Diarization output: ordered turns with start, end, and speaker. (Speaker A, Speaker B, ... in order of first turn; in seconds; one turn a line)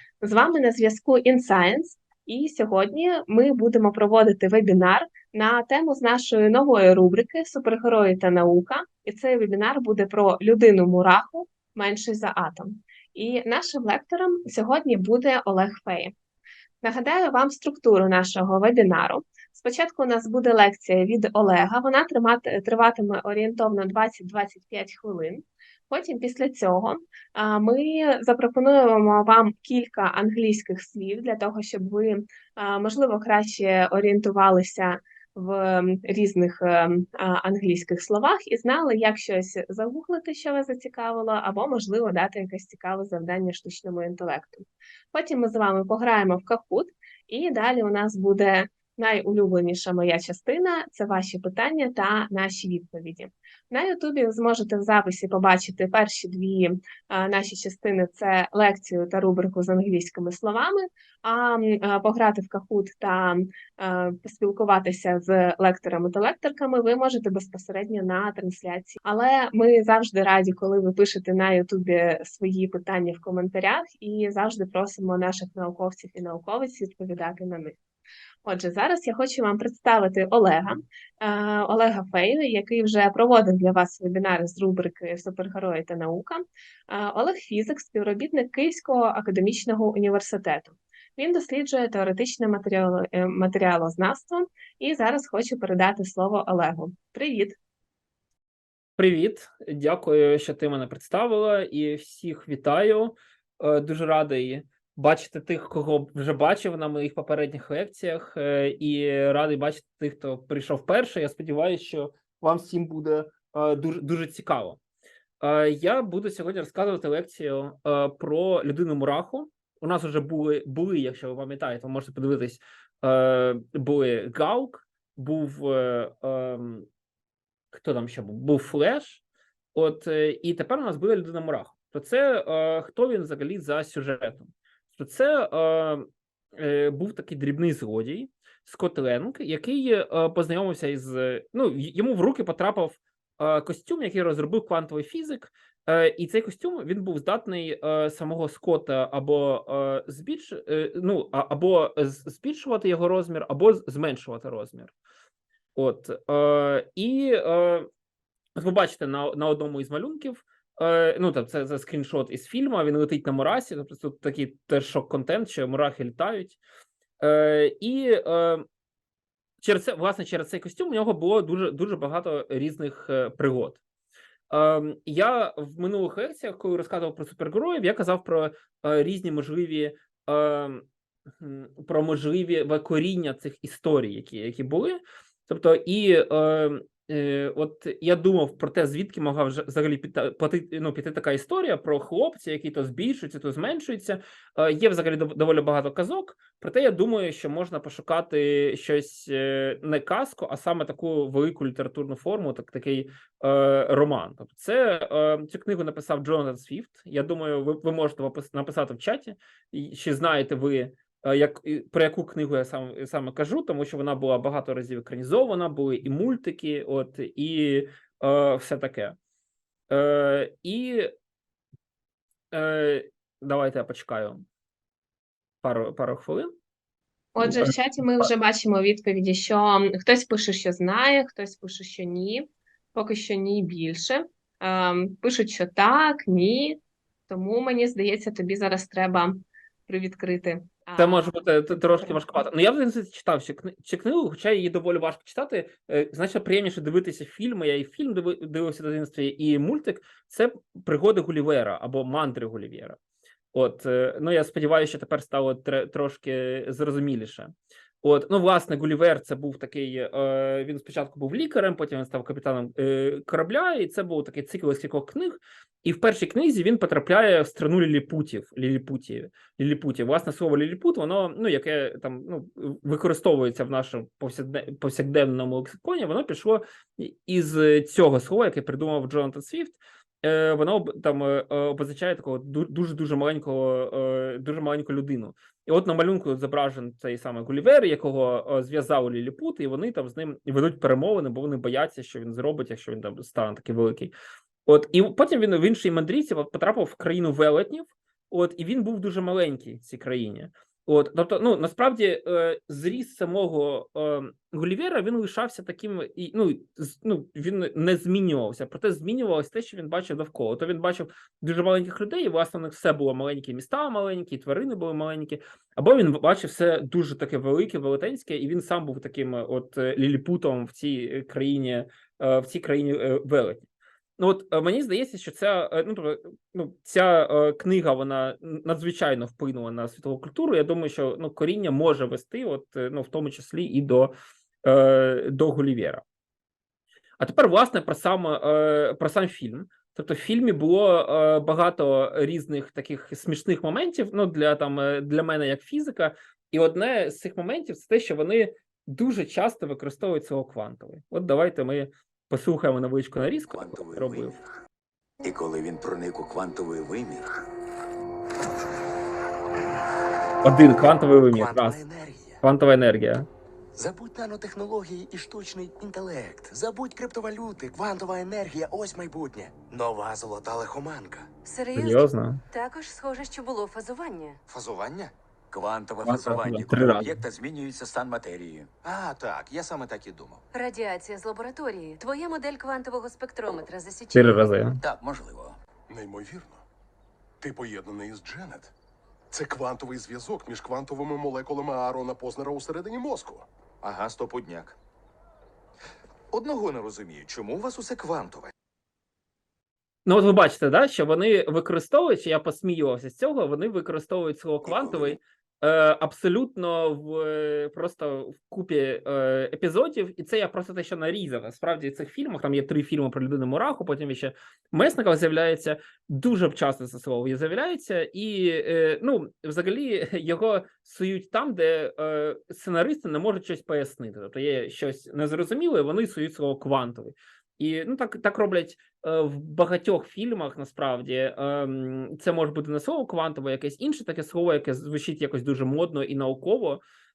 Speaker A: 0.2-16.1
Speaker A: 16.8-77.8
Speaker A: 78.4-97.6
Speaker B: 99.0-114.8
Speaker B: 115.4-126.9
Speaker B: 127.7-129.2
Speaker B: 129.7-154.9
Speaker B: 155.7-157.9
Speaker B: 158.6-166.6
Speaker B: 167.2-168.6
Speaker B: 169.6-173.8
Speaker B: 174.5-180.8
Speaker B: 181.4-219.2
Speaker B: 219.9-221.1
Speaker B: 222.5-224.4
Speaker B: 225.6-226.5
Speaker A: 227.3-242.2
Speaker B: 227.4-228.3
Speaker B: 241.0-253.0
Speaker B: 253.5-294.1
Speaker B: 294.6-334.1
Speaker B: 334.6-336.0
Speaker B: 337.2-354.4
Speaker C: 353.5-354.3
Speaker C: 355.2-357.4
Speaker B: 360.4-361.8
Speaker C: 361.3-362.4
Speaker B: 362.4-363.3
Speaker C: 363.8-371.3
Speaker D: 371.4-374.4
Speaker B: 371.7-372.4
Speaker C: 374.5-380.4
Speaker B: 376.0-377.2
Speaker D: 380.5-384.4
Speaker B: 384.1-384.8
Speaker C: 384.8-385.6
Speaker E: 385.9-386.6
Speaker E: 387.4-388.7
Speaker E: 389.3-393.5
Speaker C: 393.8-394.8
Speaker C: 396.3-398.5
Speaker B: 400.1-436.8
Speaker C: 404.6-405.2